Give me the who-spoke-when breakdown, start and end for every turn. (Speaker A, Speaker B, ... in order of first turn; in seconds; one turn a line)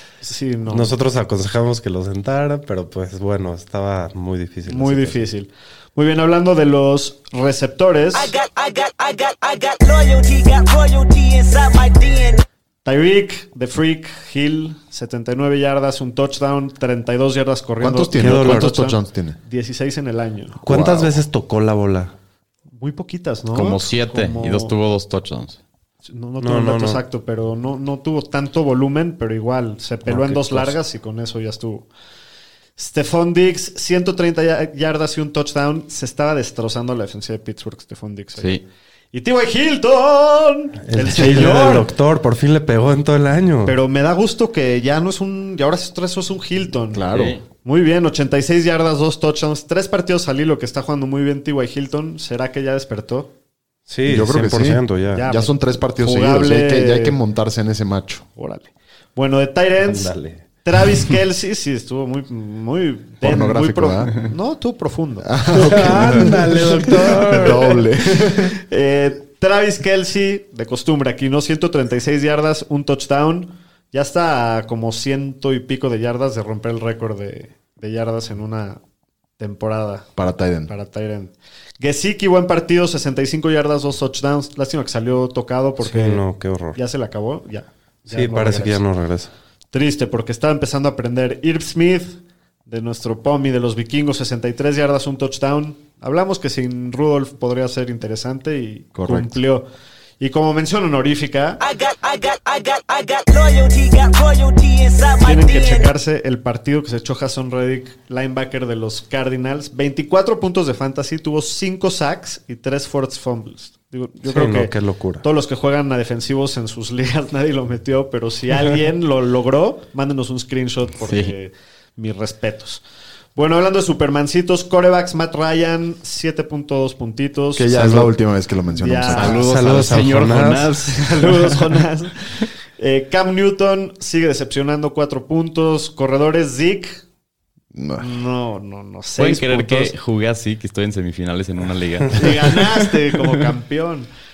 Speaker A: 0.2-0.9
Speaker B: 0.7-5.2
Speaker A: 4.7-8.3
Speaker C: 8.1-12.4
Speaker A: 12.8-20.6
Speaker D: 17.8-19.4
Speaker B: 18.1-18.8
Speaker D: 20.6-21.2
Speaker B: 20.6-22.1
Speaker A: 22.7-24.7
Speaker E: 23.5-25.6
Speaker A: 26.0-31.9
Speaker B: 26.4-27.0
Speaker E: 30.1-30.8
Speaker A: 32.8-38.6
Speaker E: 38.4-38.6
Speaker A: 39.1-41.9
Speaker B: 40.8-43.8
Speaker E: 41.2-41.7
Speaker A: 43.6-47.1
Speaker D: 46.9-47.4
Speaker E: 47.1-47.4
Speaker A: 47.6-53.3
Speaker B: 53.9-55.2
Speaker D: 54.0-58.2
Speaker A: 55.1-57.2
Speaker A: 58.4-60.1
Speaker B: 59.8-60.4
Speaker A: 60.6-66.3
Speaker D: 63.2-64.2
Speaker D: 65.2-68.6
Speaker B: 65.5-67.8
Speaker A: 68.3-78.8
Speaker A: 79.4-80.1
Speaker D: 80.2-80.7
Speaker A: 80.7-86.2
Speaker B: 85.8-86.8
Speaker A: 86.7-88.8
Speaker B: 88.1-89.3
Speaker A: 89.7-99.7
Speaker D: 98.9-99.4
Speaker A: 100.2-101.6
Speaker C: 101.6-105.9
Speaker A: 105.2-122.8
Speaker B: 114.3-115.2
Speaker E: 121.0-121.3
Speaker A: 123.3-128.0
Speaker D: 127.5-129.4
Speaker B: 127.7-128.1
Speaker A: 128.7-129.4
Speaker E: 129.1-131.8
Speaker B: 129.3-130.8
Speaker A: 130.9-137.0
Speaker D: 137.7-138.1
Speaker A: 138.0-139.9
Speaker E: 139.2-143.1
Speaker A: 142.1-144.1